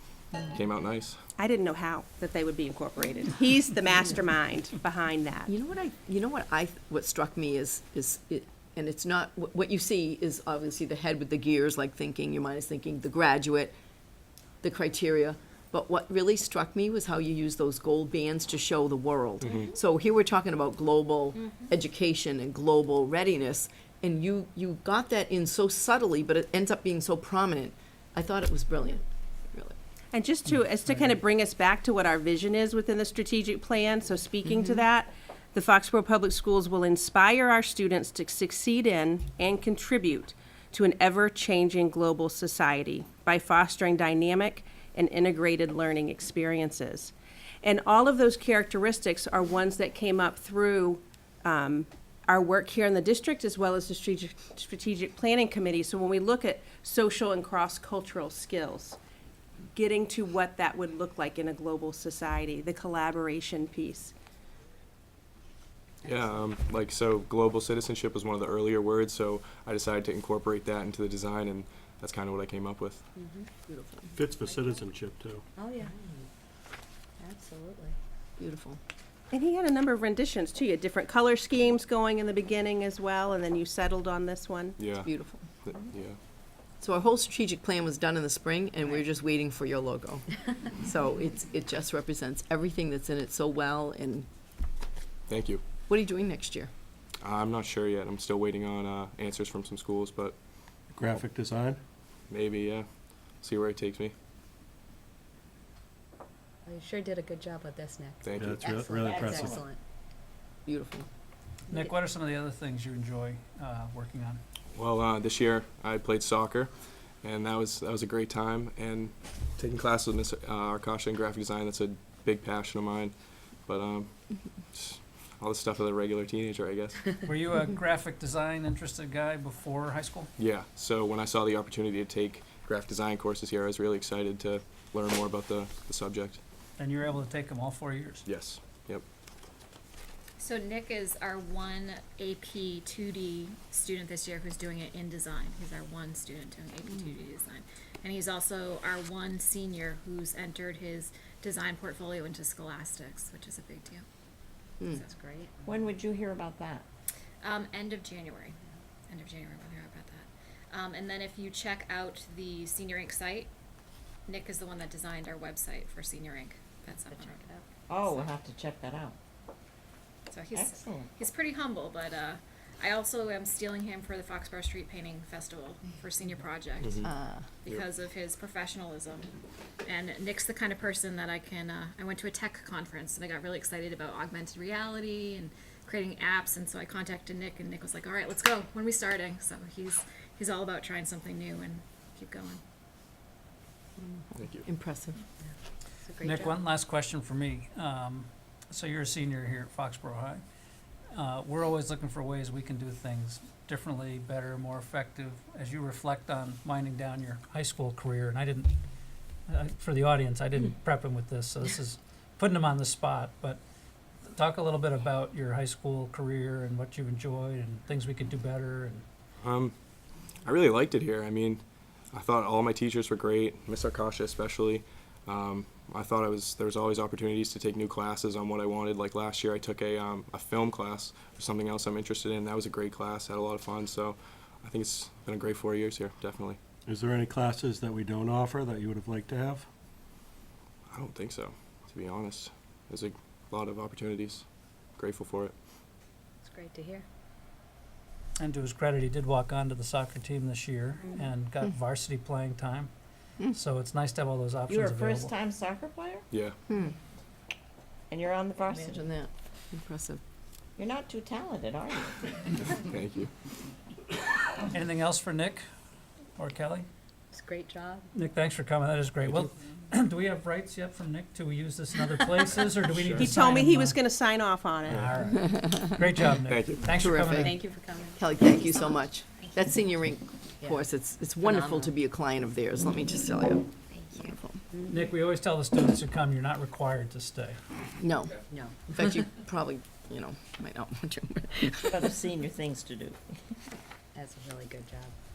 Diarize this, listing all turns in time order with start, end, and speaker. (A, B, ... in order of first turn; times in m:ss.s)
0:00.4-0:01.2 A
0:01.4-0:05.5 B
0:05.5-0:13.7 C
0:14.6-0:29.8 C
0:19.4-0:19.7 A
0:30.1-0:59.0 B
0:30.5-0:31.1 D
0:59.7-1:04.1 B
1:06.0-1:13.0 A
1:13.2-1:13.5 E
1:13.7-1:14.1 C
1:14.2-1:15.4 F
1:14.4-1:14.7 E
1:15.6-1:16.3 E
1:17.2-1:18.0 E
1:18.4-1:18.8 C
1:19.3-1:24.8 B
1:24.8-1:25.1 A
1:25.0-1:25.4 C
1:25.6-1:26.2 A
1:26.8-1:34.3 C
1:35.3-1:35.6 A
1:35.9-1:36.7 C
1:37.2-1:40.4 A
1:40.9-1:41.8 F
1:42.3-1:42.9 A
1:43.4-1:44.1 A
1:46.7-1:49.8 E
1:48.2-1:49.1 A
1:48.4-1:49.6 F
1:49.1-1:49.6 G
1:50.7-1:51.1 C
1:51.7-1:54.4 D
1:54.7-1:56.7 A
1:57.2-2:03.1 A
2:03.7-2:07.1 A
2:07.2-2:10.3 D
2:10.4-2:16.4 A
2:16.8-2:18.2 D
2:18.2-2:19.0 A
2:20.4-2:34.0 H
2:34.9-2:35.5 H
2:34.9-2:35.5 E
2:35.6-2:36.8 G
2:37.4-2:38.6 H
2:39.1-2:43.5 H
2:44.3-2:47.4 H
2:47.1-2:47.6 E
2:47.9-2:49.2 G
2:48.0-2:48.3 H
2:50.3-2:57.1 H
2:50.5-2:51.1 G
2:57.0-2:57.5 C
2:57.6-2:59.3 H
2:59.8-3:12.6 H
3:14.0-3:15.2 C
3:14.4-3:14.7 A
3:16.0-3:16.6 E
3:16.2-3:20.4 D
3:21.1-3:28.7 D
3:29.5-3:33.6 D
3:34.3-3:39.1 D
3:39.4-3:39.7 A
3:40.4-3:56.6 A
3:56.9-3:59.7 F
4:00.9-4:04.4 A
4:05.0-4:05.5 A
4:06.4-4:07.0 E
4:08.4-4:12.9 D
4:11.0-4:11.3 E
4:13.5-4:15.4 D
4:14.7-4:16.2 G
4:16.3-4:16.6 A
4:16.7-4:16.9 C
4:18.1-4:19.0 G
4:18.7-4:20.2 C
4:20.8-4:22.3 G
4:22.6-4:23.3 A
4:24.7-4:25.6 D
4:26.4-4:26.9 D
4:27.3-4:28.1 E
4:28.1-4:34.0 D
4:32.9-4:33.3 A
4:33.2-4:35.2 B
4:34.9-4:37.6 D
4:35.5-4:35.8 C
4:36.5-4:37.0 A
4:36.9-4:37.6 C
4:37.4-4:38.2 E
4:38.2-4:43.7 C
4:38.4-4:39.7 H
4:41.4-4:41.9 E
4:43.9-4:44.4 H
4:44.7-4:45.1 E
4:44.9-4:47.6 D
4:48.0-4:52.1 C
4:48.5-4:48.8 E
4:51.8-4:53.2 G
4:54.2-4:55.1 E